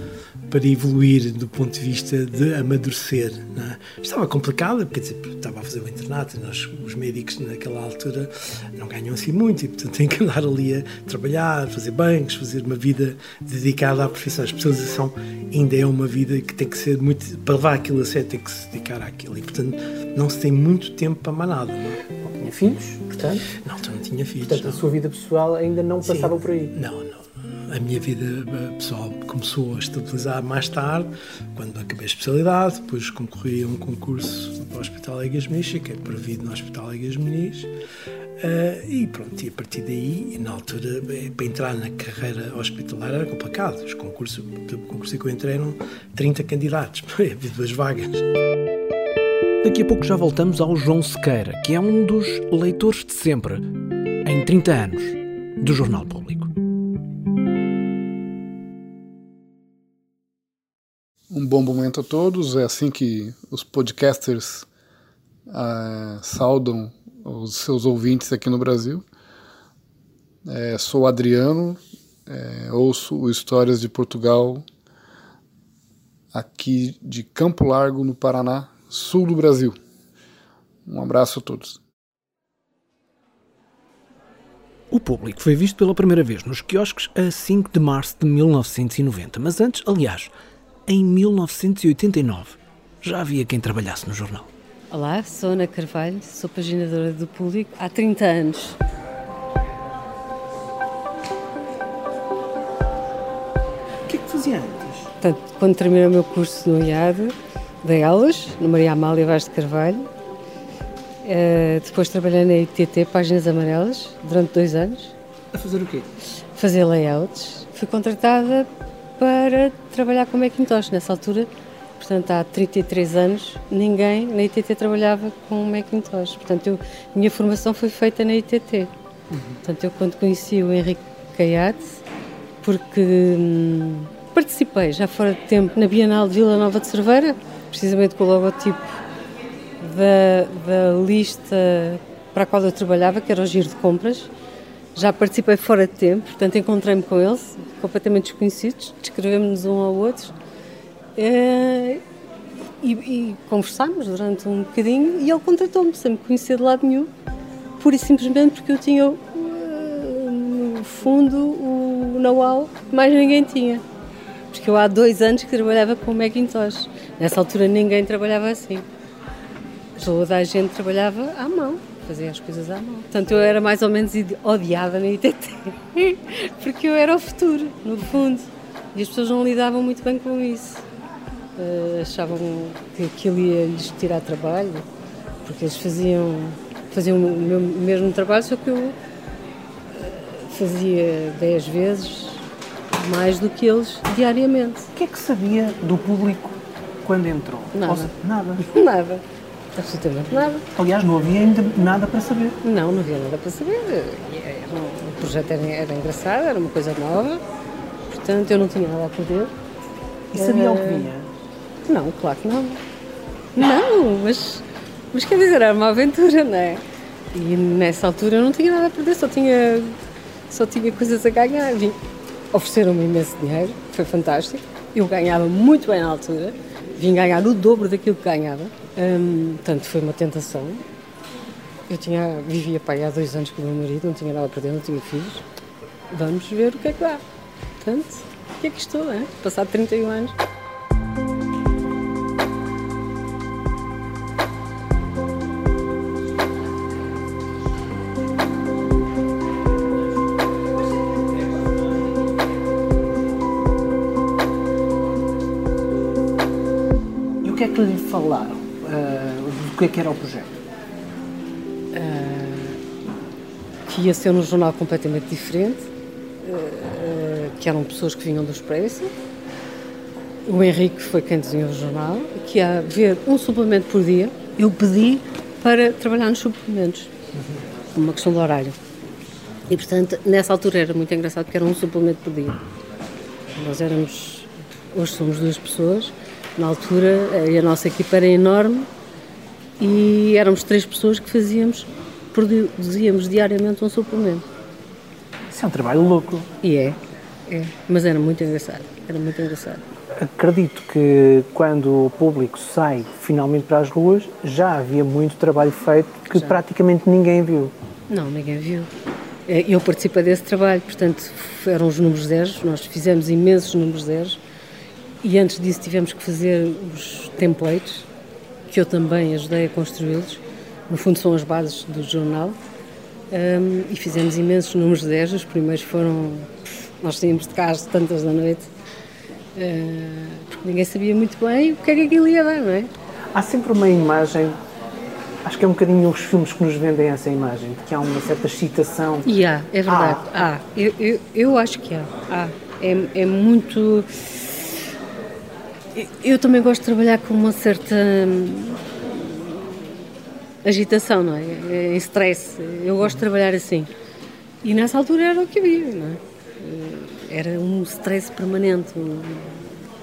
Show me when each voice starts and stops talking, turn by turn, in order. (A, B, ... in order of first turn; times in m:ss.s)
0:00.5-0:22.0 A
0:22.2-0:23.4 B
0:23.5-0:24.8 A
0:24.5-0:26.7 B
0:26.0-0:37.7 A
0:38.4-0:48.2 A
0:49.6-0:53.6 C
0:54.2-0:56.5 C
1:01.3-1:04.7 D
1:05.5-1:09.0 D
1:10.4-1:14.6 D
1:16.3-1:19.8 D
1:20.8-1:21.8 D
1:24.9-1:30.3 C
1:30.9-1:34.5 C
1:34.9-1:38.8 E
1:44.1-1:44.9 B
1:45.2-1:50.1 E
1:51.2-1:55.1 E
1:55.5-1:56.1 B
1:56.5-1:58.7 E
1:59.2-2:08.9 E
2:09.6-2:12.0 E
2:12.6-2:18.9 E
2:19.8-2:24.3 E
2:24.9-2:30.3 E
2:31.2-2:32.0 E
2:32.8-2:37.1 E
2:37.8-2:43.8 E
2:44.5-2:48.8 E
2:50.0-3:00.8 E
3:01.6-3:04.8 E
3:05.4-3:09.0 E
3:09.9-3:12.4 E
3:12.9-3:14.9 E
3:14.9-3:18.6 B
3:17.7-3:19.2 E
3:19.8-3:20.6 E
3:20.7-3:22.6 B
3:22.6-3:27.4 E
3:28.1-3:29.5 E
3:30.3-3:31.3 B
3:30.3-3:31.1 E
3:31.9-3:32.8 E
3:33.6-3:40.0 E
3:40.5-3:42.0 E
3:42.5-3:50.8 E
3:51.9-3:55.4 E
3:56.1-3:57.2 E
3:57.8-4:00.3 E
4:17.4-4:20.6 B
4:21.9-4:22.8 E
4:23.9-4:25.9 E
4:26.4-4:29.1 E
4:30.4-4:37.1 E
4:37.9-4:38.8 E
4:39.7-4:42.6 E
4:43.5-4:48.9 E
4:49.8-4:54.4 E
4:55.5-4:56.5 B
4:56.6-4:59.8 E
5:00.2-5:07.7 B
5:06.3-5:06.6 E
5:08.1-5:08.9 E
5:09.5-5:14.4 E
5:15.2-5:18.1 E
5:18.7-5:22.6 E
5:23.3-5:28.7 E
5:29.5-5:32.9 E
5:33.3-5:34.6 B
5:35.4-5:39.3 B
5:39.2-5:44.2 E
5:39.9-5:40.5 B
5:45.9-5:49.9 E
5:50.6-5:53.9 E
5:54.6-5:59.6 E